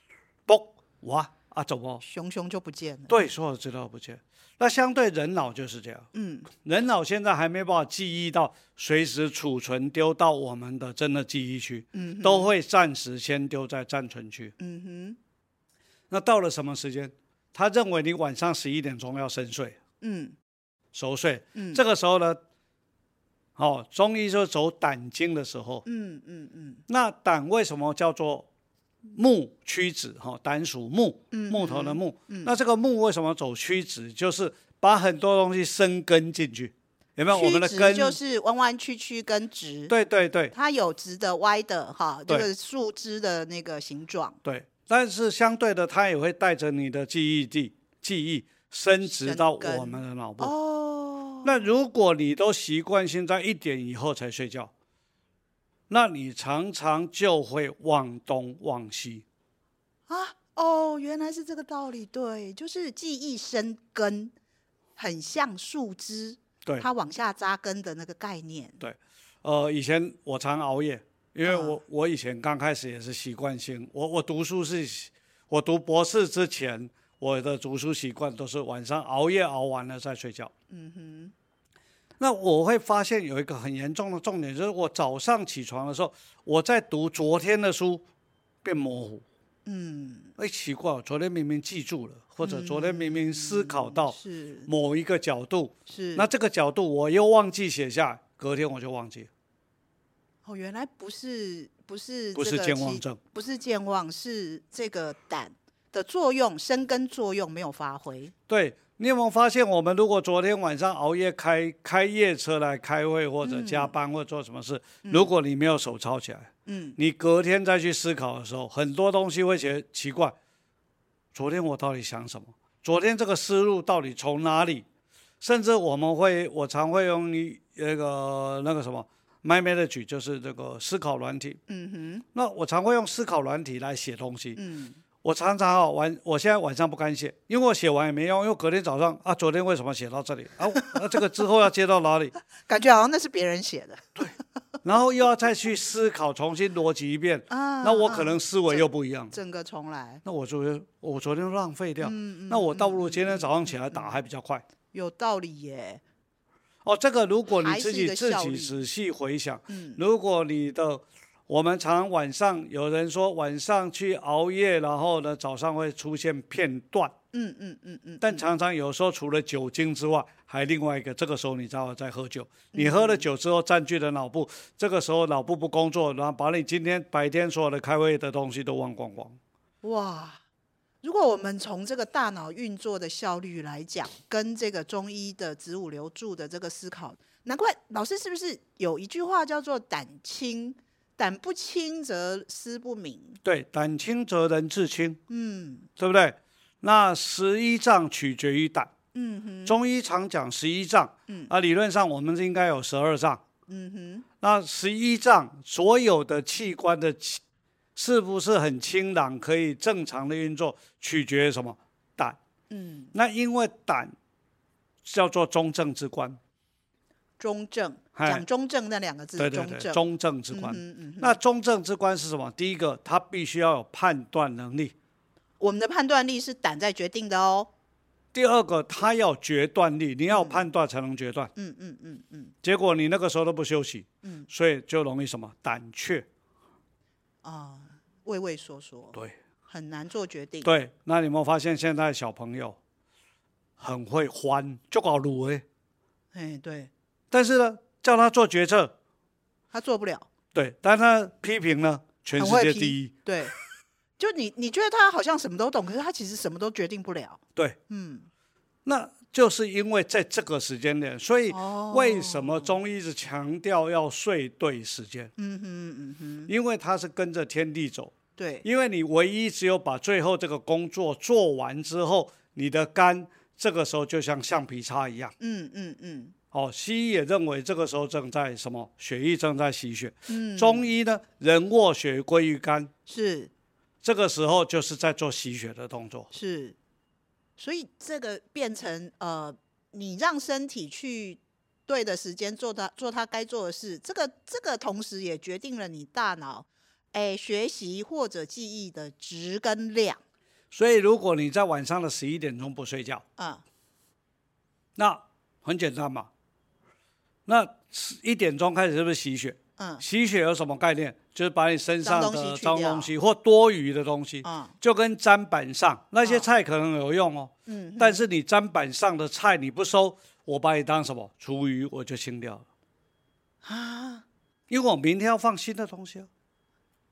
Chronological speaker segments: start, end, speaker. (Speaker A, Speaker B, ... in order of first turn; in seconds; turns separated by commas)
Speaker A: 0.5-2.0, Speaker B: 2.0-3.3, Speaker A: 3.1-14.5, Speaker B: 6.1-6.5, Speaker B: 11.9-12.5, Speaker B: 14.6-15.2, Speaker A: 16.1-19.8, Speaker B: 20.0-20.4, Speaker A: 20.9-22.4, Speaker B: 21.5-21.8, Speaker A: 23.6-25.8, Speaker B: 25.9-26.8, Speaker A: 26.9-28.5, Speaker A: 29.1-38.2, Speaker B: 31.3-32.5, Speaker B: 37.3-39.9, Speaker A: 39.9-40.5, Speaker B: 40.5-44.4, Speaker A: 44.4-50.5, Speaker B: 49.0-51.6, Speaker A: 51.4-54.7, Speaker A: 55.9-59.2, Speaker B: 60.1-64.3, Speaker B: 65.0-68.8, Speaker A: 68.8-80.5, Speaker B: 71.4-71.8, Speaker B: 80.7-81.3, Speaker A: 82.2-88.0, Speaker A: 88.6-89.2, Speaker B: 89.7-90.3, Speaker A: 90.4-99.3, Speaker B: 92.4-94.7, Speaker B: 95.9-96.3, Speaker B: 100.4-108.3, Speaker A: 102.3-103.2, Speaker A: 108.5-120.3, Speaker B: 113.4-113.9, Speaker B: 115.0-115.3, Speaker B: 116.7-117.0, Speaker A: 121.3-124.8, Speaker A: 125.4-131.6, Speaker B: 131.7-132.2, Speaker A: 132.3-134.6, Speaker B: 134.6-135.0, Speaker A: 135.2-142.3, Speaker B: 140.7-141.2, Speaker B: 142.5-144.2, Speaker A: 144.8-149.3, Speaker B: 147.5-150.2, Speaker A: 150.2-154.6, Speaker B: 152.0-154.2, Speaker B: 154.9-156.0, Speaker A: 156.8-167.1, Speaker B: 157.6-158.8, Speaker B: 159.7-160.0, Speaker B: 167.3-168.5, Speaker A: 168.2-179.4, Speaker B: 172.7-173.3, Speaker B: 179.8-180.4, Speaker B: 181.0-193.4, Speaker A: 193.4-195.2, Speaker B: 195.3-195.9, Speaker A: 196.0-198.9, Speaker B: 199.1-199.8, Speaker A: 199.7-203.4, Speaker B: 203.7-204.2, Speaker A: 204.4-207.4, Speaker A: 207.9-212.4, Speaker B: 212.7-213.1, Speaker A: 213.1-214.1, Speaker A: 215.0-216.4, Speaker B: 217.4-221.4, Speaker A: 218.1-218.4, Speaker A: 219.4-224.9, Speaker B: 225.6-227.7, Speaker A: 228.3-231.5, Speaker B: 230.3-230.7, Speaker B: 231.6-232.5, Speaker A: 232.6-236.2, Speaker B: 234.2-234.5, Speaker B: 237.4-239.2, Speaker B: 239.7-240.7, Speaker A: 240.6-242.8, Speaker A: 243.8-245.6, Speaker B: 246.3-246.9, Speaker A: 247.3-248.9, Speaker B: 249.7-250.3, Speaker A: 250.5-253.1, Speaker B: 252.3-253.5, Speaker B: 254.2-258.3, Speaker A: 258.8-265.3, Speaker B: 261.5-262.8, Speaker B: 265.4-266.5, Speaker A: 266.5-275.3, Speaker B: 268.4-268.6, Speaker B: 275.4-276.3, Speaker A: 276.5-282.9, Speaker B: 280.3-280.9, Speaker B: 283.1-283.5, Speaker A: 284.0-286.3, Speaker B: 286.3-286.8, Speaker B: 287.6-300.2, Speaker A: 300.7-303.2, Speaker B: 303.4-303.6, Speaker A: 304.9-306.3, Speaker A: 307.4-322.6, Speaker B: 309.8-310.0, Speaker B: 312.0-313.1, Speaker B: 314.4-314.7, Speaker B: 316.2-316.5, Speaker B: 317.7-318.2, Speaker B: 323.6-324.2, Speaker A: 324.7-326.3